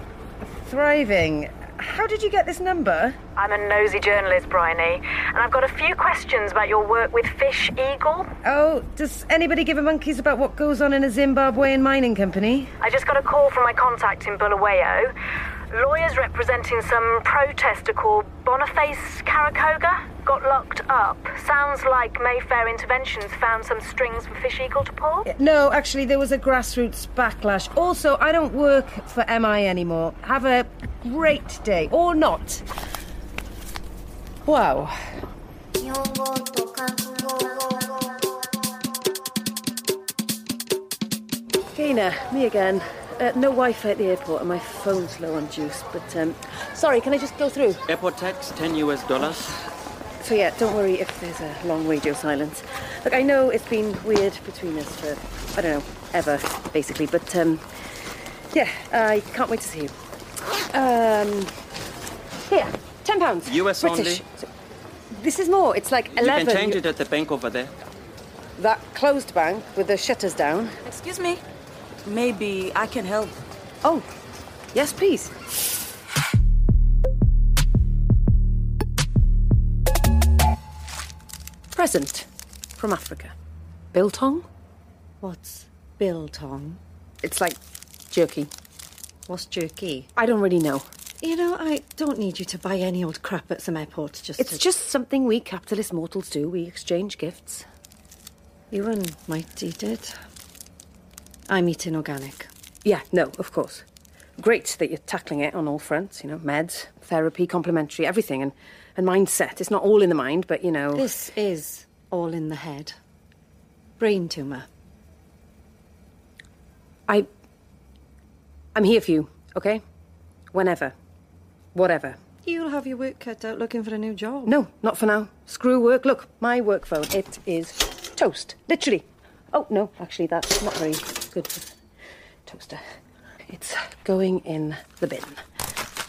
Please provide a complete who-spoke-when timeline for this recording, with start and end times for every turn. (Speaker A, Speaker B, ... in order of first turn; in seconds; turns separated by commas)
Speaker A: 0.4-3.2, Speaker B: 3.4-8.3, Speaker A: 8.4-12.7, Speaker B: 12.8-15.1, Speaker B: 15.7-25.3, Speaker A: 25.3-32.6, Speaker A: 34.4-34.9, Speaker A: 41.7-47.8, Speaker C: 47.9-49.5, Speaker A: 50.2-57.6, Speaker A: 58.5-59.9, Speaker A: 60.7-61.5, Speaker A: 62.5-64.5, Speaker C: 63.5-64.2, Speaker A: 65.1-66.8, Speaker C: 66.1-67.7, Speaker A: 68.6-70.8, Speaker D: 70.9-71.4, Speaker D: 72.0-73.4, Speaker A: 74.7-75.3, Speaker A: 81.7-83.3, Speaker A: 83.9-84.5, Speaker E: 85.2-86.8, Speaker A: 87.2-87.6, Speaker A: 88.1-88.5, Speaker E: 89.3-90.1, Speaker A: 90.1-90.9, Speaker E: 91.2-94.7, Speaker A: 94.4-97.6, Speaker E: 98.7-100.1, Speaker E: 101.5-102.5, Speaker A: 102.8-103.8, Speaker A: 104.4-111.1, Speaker E: 110.9-113.0, Speaker E: 114.0-114.7, Speaker A: 118.8-119.8, Speaker A: 120.5-121.0, Speaker A: 121.7-122.2, Speaker E: 122.5-124.5, Speaker A: 124.5-131.7, Speaker A: 132.5-132.8, Speaker A: 133.5-135.4